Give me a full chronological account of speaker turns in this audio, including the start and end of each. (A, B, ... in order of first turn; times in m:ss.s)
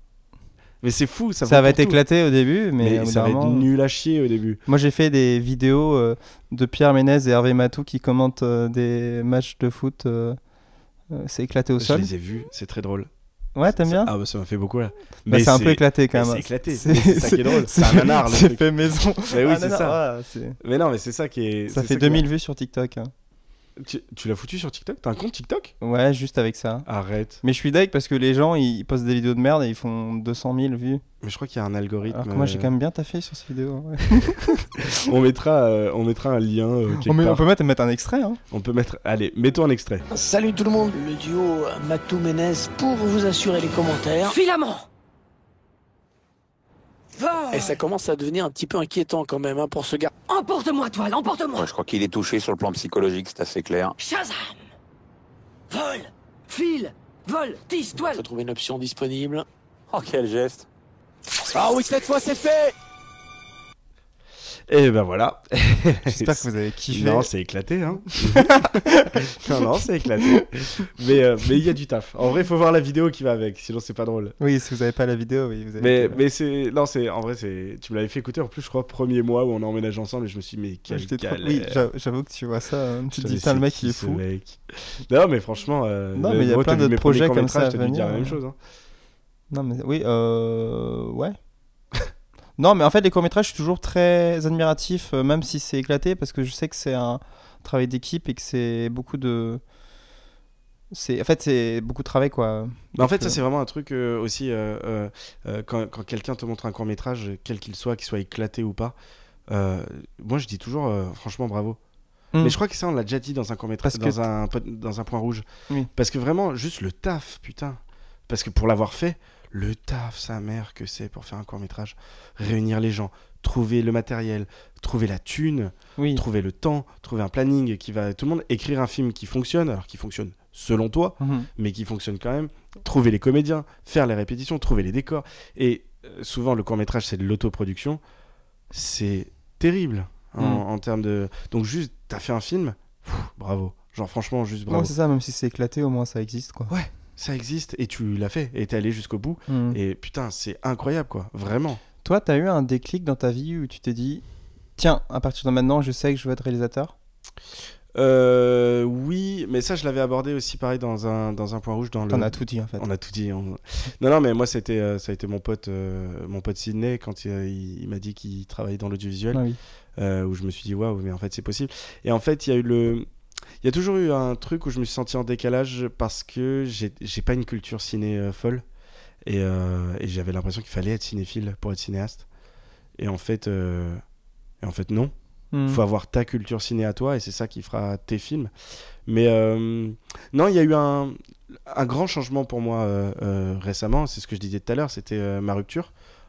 0:00.8-0:02.0 A
0:01.4-0:03.7 B
0:02.8-0:04.6 A
0:04.7-0:10.4 B
0:11.1-0:12.1 B
0:11.8-0:13.1 A
0:13.6-0:14.1 B
0:13.7-0:18.6 A
0:15.3-0:20.6 B
0:19.3-0:20.0 A
0:20.6-0:22.3 A
0:21.7-0:23.1 B
0:23.8-0:25.7 A
0:25.8-0:26.9 B
0:26.9-0:27.4 A
0:27.4-0:31.0 B
0:31.2-0:32.7 A
0:32.1-0:34.7 B
0:34.2-0:37.4 A
0:37.0-0:38.4 B
0:38.5-0:40.1 A
0:40.1-0:44.4 C
0:44.3-0:44.8 D
0:47.1-0:47.8 D
0:47.5-0:50.1 C
0:50.3-0:51.7 D
0:51.6-0:53.9 E
0:54.0-0:54.6 D
0:55.7-0:58.2 D
0:58.0-0:59.5 C
0:59.9-1:00.7 E
1:01.6-1:02.7 C
1:04.7-1:14.4 A
1:06.1-1:07.3 B
1:08.2-1:09.6 B
1:10.1-1:10.4 B
1:14.4-1:16.2 B
1:15.8-1:21.8 A
1:20.9-1:24.2 B
1:23.1-1:28.6 A
1:26.2-1:28.4 B
1:29.5-1:31.4 B
1:32.6-1:39.6 B
1:40.9-1:43.4 B
1:43.0-1:49.0 A
1:49.5-1:51.8 A
1:52.4-2:18.0 A
1:53.8-1:54.2 B
2:06.0-2:06.2 B
2:11.2-2:11.5 B
2:18.7-2:24.9 A
2:20.4-2:20.6 B
2:24.7-2:26.7 B
2:26.7-2:31.8 A
2:29.5-2:29.8 B
2:32.0-2:34.2 B
2:34.8-2:36.9 B
2:37.9-2:49.4 A
2:42.1-2:42.8 B
2:49.3-2:49.6 B
2:50.0-2:53.1 A
2:53.6-2:58.6 A
2:59.2-3:02.3 A
3:03.0-3:04.0 A
3:04.6-3:05.1 A
3:05.5-3:05.8 B
3:05.7-3:08.5 A
3:09.1-3:15.9 A